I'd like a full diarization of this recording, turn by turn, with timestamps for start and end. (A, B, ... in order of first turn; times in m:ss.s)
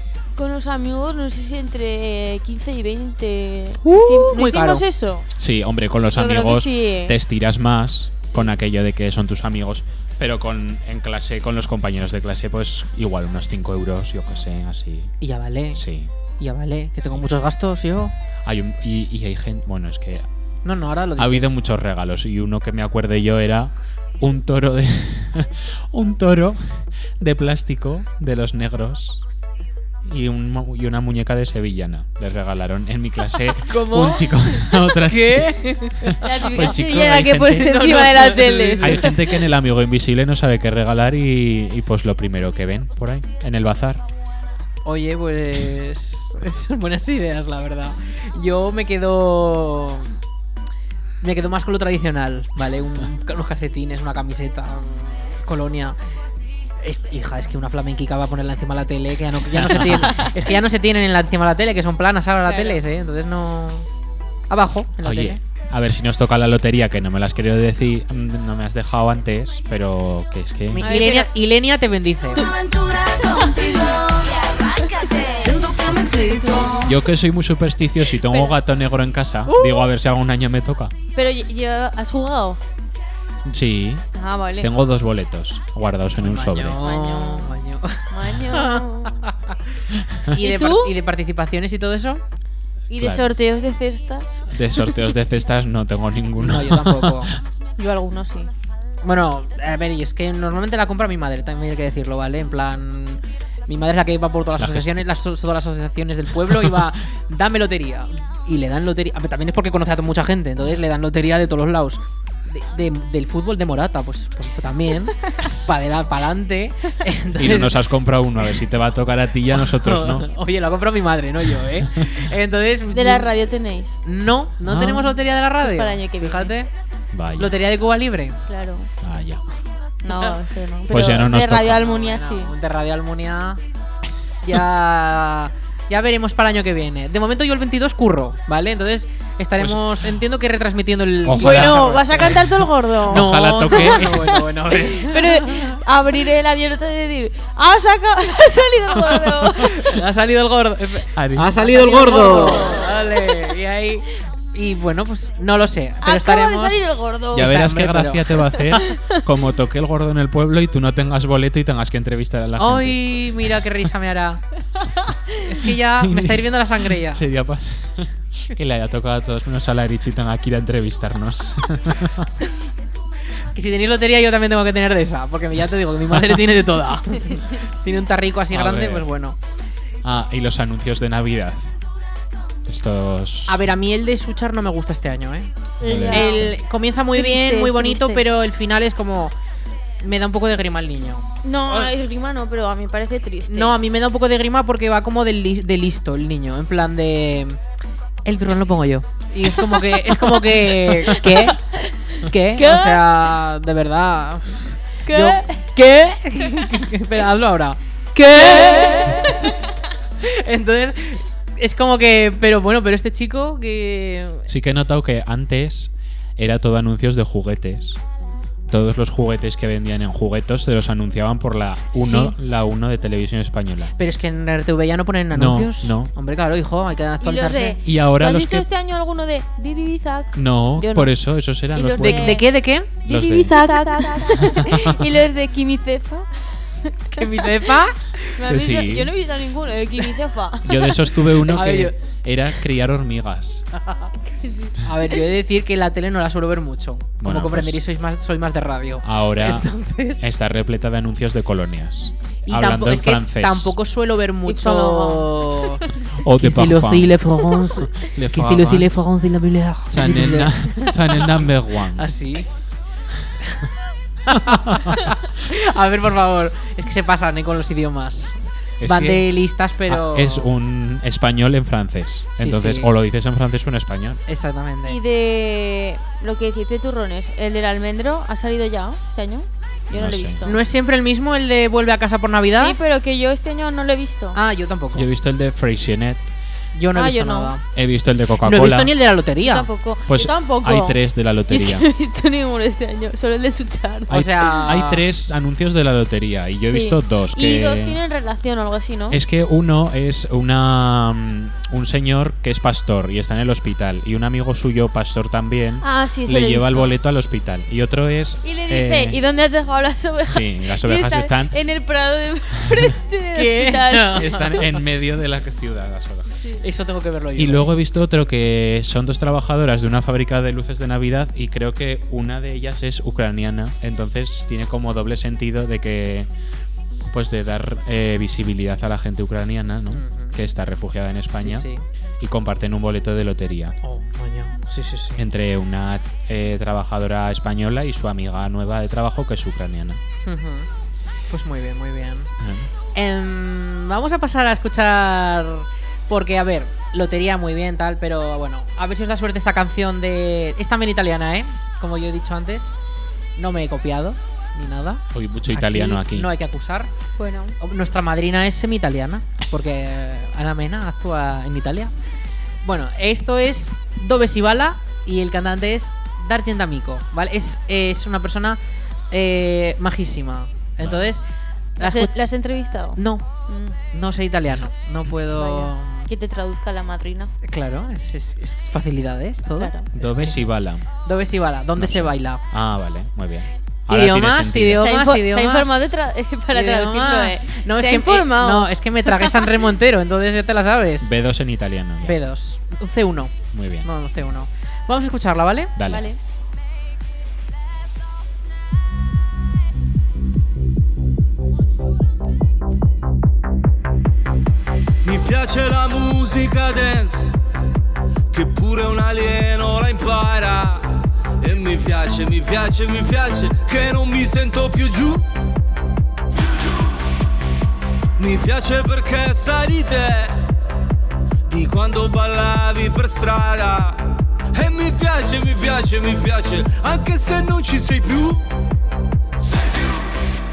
0:00.4-0:05.3 A
0:03.8-0:04.8 B
0:05.4-0:15.1 C
0:06.1-0:07.2 A
0:15.2-0:15.8 B
0:15.8-0:16.1 C
0:16.4-0:18.1 B
0:18.4-0:20.3 C
0:20.6-0:21.6 B
0:21.2-0:29.2 C
0:30.0-0:37.7 C
0:33.6-0:39.2 B
0:36.2-0:39.2 A
0:38.8-0:44.0 C
0:44.8-0:50.2 B
0:51.2-0:56.0 B
0:56.8-1:03.9 B
0:59.6-1:00.1 C
1:02.4-1:02.8 A
1:04.5-1:05.4 B
1:05.0-1:10.9 C
1:10.7-1:12.5 B
1:10.8-1:11.3 A
1:12.4-1:16.9 D
1:16.8-1:20.9 C
1:18.3-1:18.6 A
1:19.5-1:19.9 B
1:21.2-1:22.6 A
1:23.5-1:24.0 C
1:24.2-1:24.7 A
1:24.6-1:26.8 C
1:26.2-1:29.6 B
1:26.8-1:27.6 A
1:28.1-1:29.1 A
1:30.3-1:32.2 B
1:30.4-1:31.0 A
1:32.9-1:34.4 A
1:33.0-1:33.3 C
1:34.5-1:37.3 C
1:36.4-1:37.3 B
1:37.8-1:38.5 A
1:39.0-1:57.8 B
1:44.6-1:45.1 C
1:57.4-2:00.3 C
1:59.5-2:03.3 B
2:02.9-2:04.0 A
2:04.0-2:06.7 B
2:04.6-2:05.2 C
2:05.6-2:06.5 A
2:07.1-2:07.6 C
2:07.4-2:08.4 B
2:08.5-2:08.9 A
2:09.0-2:09.4 C
2:10.0-2:12.5 A
2:10.1-2:10.4 B
2:10.9-2:11.8 C
2:11.5-2:13.6 B
2:14.4-2:22.4 B
2:19.6-2:20.1 C
2:21.2-2:24.3 C
2:21.3-2:30.0 A
2:23.1-2:25.8 B
2:29.6-2:38.4 B
2:31.1-2:31.6 C
2:31.6-2:33.1 A
2:36.0-2:37.6 A
2:37.3-2:43.7 C
2:38.7-2:39.2 A
2:42.6-2:44.4 B
2:45.4-2:47.2 B
2:46.0-2:52.3 C
2:53.5-2:59.4 B
2:58.5-2:59.1 C
3:00.0-3:01.7 C
3:02.7-3:03.7 C
3:03.5-3:05.5 B
3:05.8-3:08.3 A
3:05.8-3:06.6 C
3:06.1-3:09.3 B
3:10.0-3:11.9 B
3:11.4-3:13.8 A
3:13.5-3:17.6 B
3:18.2-3:21.6 B
3:21.0-3:21.9 A
3:22.2-3:29.5 B
3:22.5-3:23.2 A
3:25.1-3:25.6 A
3:28.3-3:29.6 A
3:30.2-3:34.5 B
3:34.5-3:38.0 C
3:38.7-3:44.0 C
3:41.9-3:42.4 B
3:44.0-3:47.8 B
3:45.3-3:46.1 C
3:47.2-3:51.1 A
3:47.8-3:48.7 C
3:50.4-3:52.4 C
3:51.7-3:52.5 A
3:52.0-3:52.9 B
3:53.0-3:56.3 A
3:53.1-3:53.6 C
3:54.4-3:55.0 C
3:56.9-3:57.7 A
3:57.1-3:58.3 B
3:58.4-4:00.9 A
3:58.4-3:59.1 C
4:00.6-4:03.6 C
4:01.5-4:02.0 B
4:03.8-4:04.1 B
4:04.3-4:04.8 A
4:04.8-4:10.3 B
4:07.2-4:07.8 C
4:09.0-4:13.8 C
4:12.5-4:15.9 B
4:14.5-4:15.8 A
4:16.2-4:19.0 C
4:16.4-4:22.5 B
4:19.9-4:22.1 C
4:24.3-4:30.5 B
4:24.4-4:25.0 C
4:28.8-4:29.3 C
4:29.9-4:34.2 C
4:32.4-4:32.9 B
4:34.3-4:35.0 B
4:34.9-4:40.6 A
4:39.9-4:40.4 C
4:40.4-4:42.8 B
4:42.5-4:44.4 A
4:44.4-4:45.1 B
4:45.0-4:46.2 C
4:46.7-4:47.6 B
4:46.9-4:47.5 A
4:47.7-4:48.9 C
4:48.4-4:49.7 B
4:49.4-4:54.7 A
4:50.1-4:51.9 C
4:54.1-4:55.0 B
4:54.1-4:58.0 C
4:56.6-4:59.2 A
4:59.1-5:09.2 C
5:05.8-5:07.0 A
5:08.4-5:14.5 A
5:10.3-5:11.6 C
5:13.3-5:14.6 B
5:14.2-5:16.4 C
5:16.6-5:17.8 B
5:17.4-5:26.3 C
5:27.0-5:31.7 C
5:29.9-5:30.4 B
5:31.3-5:31.8 B
5:32.2-5:33.8 C
5:33.8-5:35.2 B
5:35.2-5:40.0 C
5:40.2-5:40.7 B
5:41.3-5:42.3 B
5:42.4-5:42.7 C
5:42.9-5:52.8 B
5:53.4-5:56.9 B
5:55.1-5:56.3 C
5:57.2-5:57.6 A
5:57.6-6:01.9 B
6:02.6-6:11.2 B
6:10.8-6:11.2 C
6:11.8-6:12.1 B
6:11.8-6:13.8 A
6:13.0-6:13.3 B
6:13.8-6:16.1 B
6:15.3-6:17.3 A
6:17.4-6:20.5 B
6:19.6-6:19.9 A
6:19.9-6:20.9 C
6:21.0-6:22.4 B
6:21.8-6:25.0 C
6:23.9-6:25.9 B
6:24.8-6:29.4 A
6:26.5-6:31.1 B
6:31.0-6:32.2 C
6:32.0-6:35.8 B
6:33.5-6:33.9 C
6:35.8-6:36.1 C
6:35.9-6:36.2 A
6:45.0-6:47.3 E
6:48.3-6:55.2 E
6:58.2-7:00.4 E
7:01.5-7:08.4 E
7:09.4-7:10.0 E